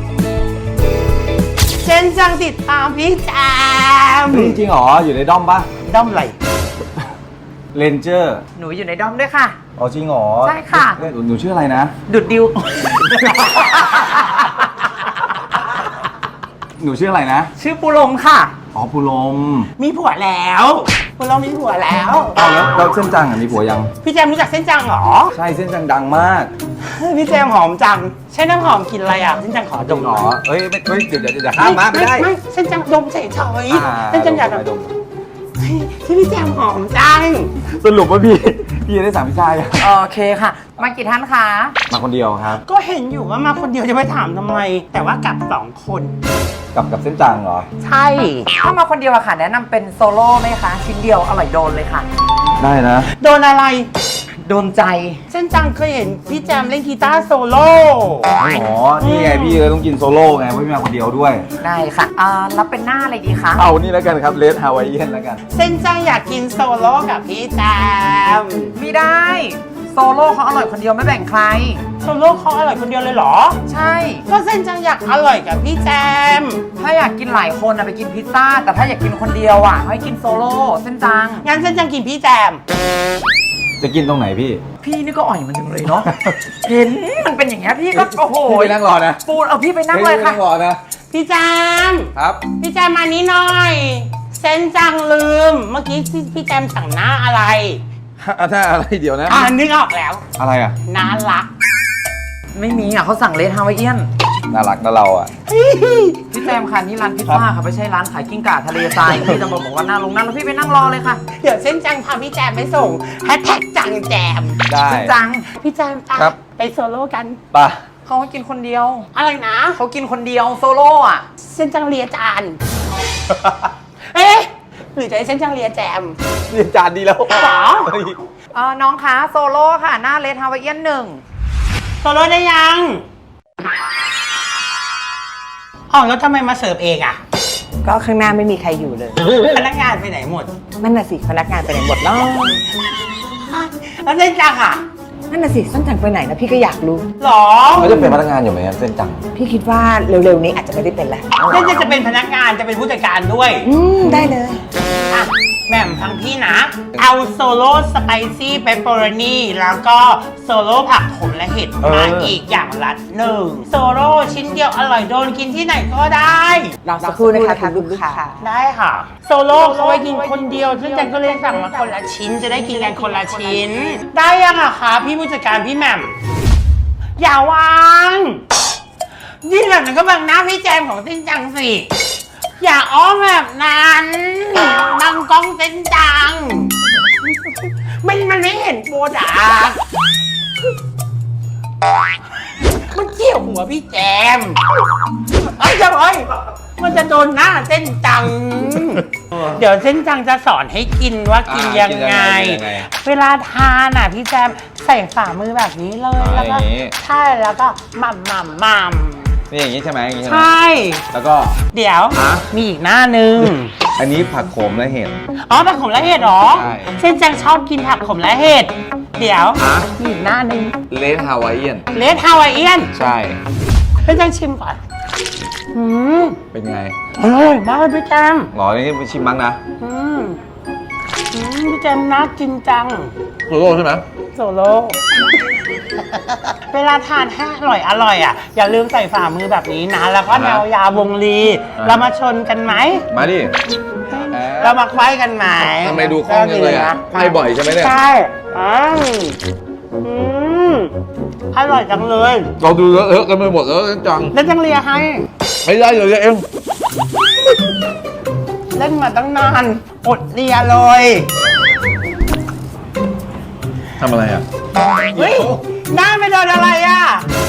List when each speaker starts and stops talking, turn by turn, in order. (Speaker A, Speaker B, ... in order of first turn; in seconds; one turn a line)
Speaker A: 1.8-4.6
Speaker B: 4.3-5.7
Speaker A: 5.8-6.4
Speaker B: 7.7-8.4
Speaker C: 8.6-9.6
Speaker B: 9.8-12.0
Speaker C: 10.4-11.0
Speaker C: 12.1-14.5
Speaker B: 16.8-17.5
Speaker C: 17.6-18.6
Speaker B: 18.7-19.7
Speaker A: 19.8-22.4
Speaker B: 22.4-23.9
Speaker A: 24.0-25.4
Speaker B: 25.3-26.5
Speaker A: 26.8-30.3
Speaker B: 29.9-32.3
Speaker A: 31.6-34.6
Speaker B: 33.7-34.9
Speaker A: 35.6-37.5
Speaker B: 37.6-39.9
Speaker C: 39.8-41.8
Speaker B: 41.9-42.6
Speaker A: 42.6-46.1
Speaker B: 46.7-47.7
Speaker A: 47.8-48.5
Speaker C: 48.5-52.1
Speaker B: 52.6-53.1
Speaker A: 53.1-53.9
Speaker C: 54.4-55.2
Speaker A: 55.3-58.4
Speaker B: 58.4-61.5
Speaker A: 59.0-59.6
Speaker C: 61.6-63.7
Speaker B: 63.6-65.4
Speaker A: 65.5-68.8
Speaker C: 68.8-71.8
Speaker A: 72.0-73.6
Speaker C: 73.7-74.2
Speaker A: 74.3-76.6
Speaker C: 76.8-81.5
Speaker A: 81.4-82.6
Speaker B: 83.8-84.6
Speaker C: 84.8-90.4
Speaker B: 87.9-89.2
Speaker B: 89.9-90.8
Speaker A: 91.1-97.8
Speaker B: 92.2-92.4
Speaker B: 98.2-99.5
Speaker A: 99.3-100.2
Speaker B: 100.4-100.8
Speaker A: 100.8-101.5
Speaker C: 102.5-104.1
Speaker B: 104.5-105.3
Speaker A: 105.5-106.4
Speaker C: 106.3-111.2
Speaker A: 111.3-114.6
Speaker B: 114.7-115.2
Speaker C: 114.8-115.5
Speaker A: 115.5-117.4
Speaker B: 117.5-117.8
Speaker C: 118.1-119.1
Speaker A: 119.1-119.8
Speaker C: 119.8-121.2
Speaker A: 121.4-122.6
Speaker A: 124.0-126.2
Speaker B: 126.5-128.2
Speaker A: 127.3-127.9
Speaker C: 128.5-131.2
Speaker A: 132.0-133.0
Speaker A: 135.9-137.2
Speaker D: 137.8-139.3
Speaker A: 139.4-140.5
Speaker D: 140.8-142.6
Speaker A: 143.4-144.8
Speaker D: 145.3-147.1
Speaker A: 147.2-148.1
Speaker B: 147.7-149.2
Speaker D: 149.3-152.0
Speaker A: 151.5-153.7
Speaker D: 153.6-154.6
Speaker A: 155.1-166.8
Speaker B: 161.8-162.3
Speaker D: 166.8-168.4
Speaker C: 167.0-168.2
Speaker A: 168.4-176.2
Speaker C: 169.7-171.9
Speaker C: 172.5-173.9
Speaker A: 177.2-178.4
Speaker A: 179.4-181.9
Speaker A: 182.6-186.8
Speaker A: 187.3-189.8
Speaker A: 192.8-194.7
Speaker A: 195.4-209.4
Speaker B: 201.5-202.9
Speaker B: 206.2-206.9
Speaker B: 209.5-210.5
Speaker A: 210.2-211.0
Speaker B: 211.1-211.6
Speaker A: 211.7-213.7
Speaker B: 212.2-212.5
Speaker B: 214.0-215.2
Speaker A: 215.4-220.8
Speaker B: 216.5-216.9
Speaker B: 219.6-219.9
Speaker B: 220.9-221.9
Speaker A: 221.9-222.9
Speaker B: 222.9-223.4
Speaker A: 224.0-224.8
Speaker A: 225.7-226.4
Speaker B: 226.5-226.9
Speaker A: 227.1-228.5
Speaker B: 228.5-229.6
Speaker A: 229.8-230.4
Speaker A: 231.3-233.1
Speaker B: 233.5-234.1
Speaker A: 234.3-235.2
Speaker A: 236.0-243.1
Speaker B: 240.3-240.6
Speaker B: 241.8-242.0
Speaker B: 243.1-243.6
Speaker A: 244.1-249.4
Speaker B: 244.3-244.8
Speaker B: 245.8-247.9
Speaker A: 250.0-250.9
Speaker A: 251.5-252.5
Speaker B: 252.6-254.3
Speaker A: 254.3-255.3
Speaker B: 255.6-256.4
Speaker A: 258.7-261.3
Speaker B: 264.0-264.5
Speaker A: 265.1-267.3
Speaker B: 265.2-265.6